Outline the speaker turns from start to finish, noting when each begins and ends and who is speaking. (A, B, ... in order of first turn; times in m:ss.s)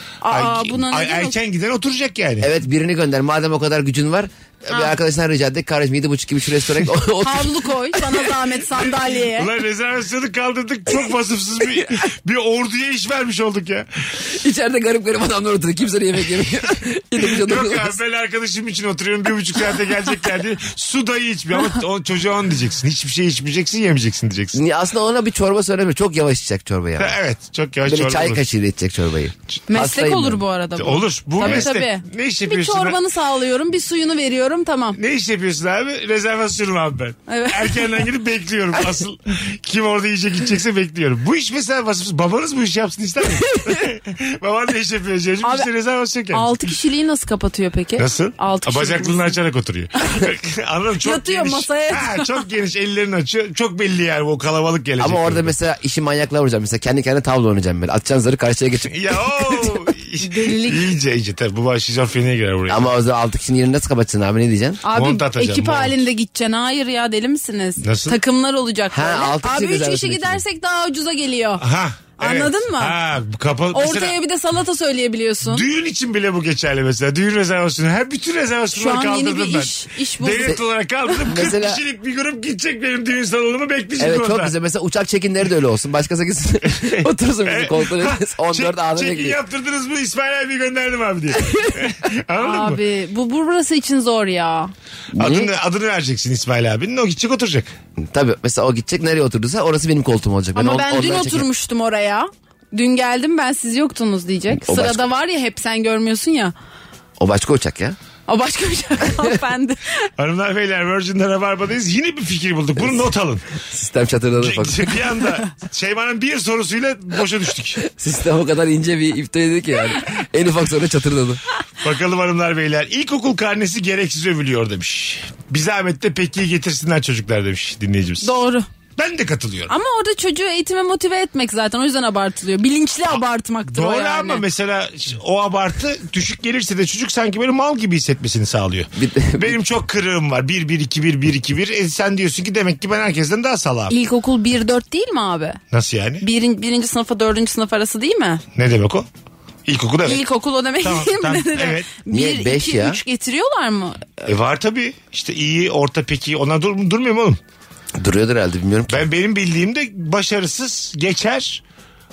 0:00.2-0:01.4 A
0:00.3-0:02.5 B
0:02.4-0:07.6 C
0:07.2-0:09.5 A
0:08.7-0:14.2 B
0:14.3-0:18.0 C
0:17.3-0:24.6 B
0:24.5-0:27.2 C
0:27.0-0:28.4 B
0:27.9-0:30.4 C
0:29.7-0:35.0 A
0:30.8-0:33.0 B
0:31.4-0:31.7 C
0:35.0-0:46.6 B
0:37.3-0:37.9 A
0:45.4-0:45.7 A
0:46.3-0:49.4 A
0:48.0-0:55.5 B
0:51.0-0:52.3 A
0:55.0-0:59.0 C
0:58.9-1:02.9 B
1:00.2-1:00.8 A
1:02.7-1:04.8 C
1:04.8-1:11.6 A
1:04.9-1:06.0 B
1:07.8-1:08.2 B
1:08.9-1:10.4 C
1:11.6-1:14.2 B
1:12.2-1:13.0 A
1:13.7-1:15.6 A
1:15.5-1:24.5 B
1:18.7-1:20.6 A
1:21.2-1:21.8 C
1:24.0-1:29.4 C
1:26.7-1:32.8 B
1:32.4-1:34.7 A
1:35.1-1:35.5 C
1:35.2-1:37.7 B
1:38.0-1:41.5 C
1:40.6-1:46.5 A
1:44.5-1:45.0 C
1:47.2-1:48.0 C
1:48.3-1:50.0 A
1:50.2-1:53.4 B
1:52.8-1:53.0 C
1:53.7-1:55.1 C
1:54.4-1:57.8 B
1:57.8-2:01.4 C
2:01.8-2:08.4 B
2:08.2-2:08.7 A
2:09.0-2:09.7 B
2:09.7-2:14.4 A
2:13.7-2:23.9 B
2:19.0-2:19.6 C
2:23.9-2:25.6 A
2:25.7-2:26.2 B
2:26.2-2:28.4 A
2:28.6-2:29.1 B
2:29.7-2:30.2 B
2:30.1-2:34.1 A
2:30.8-2:31.9 B
2:32.1-2:33.0 C
2:34.3-2:37.4 B
2:38.0-2:39.0 C
2:38.9-2:41.6 B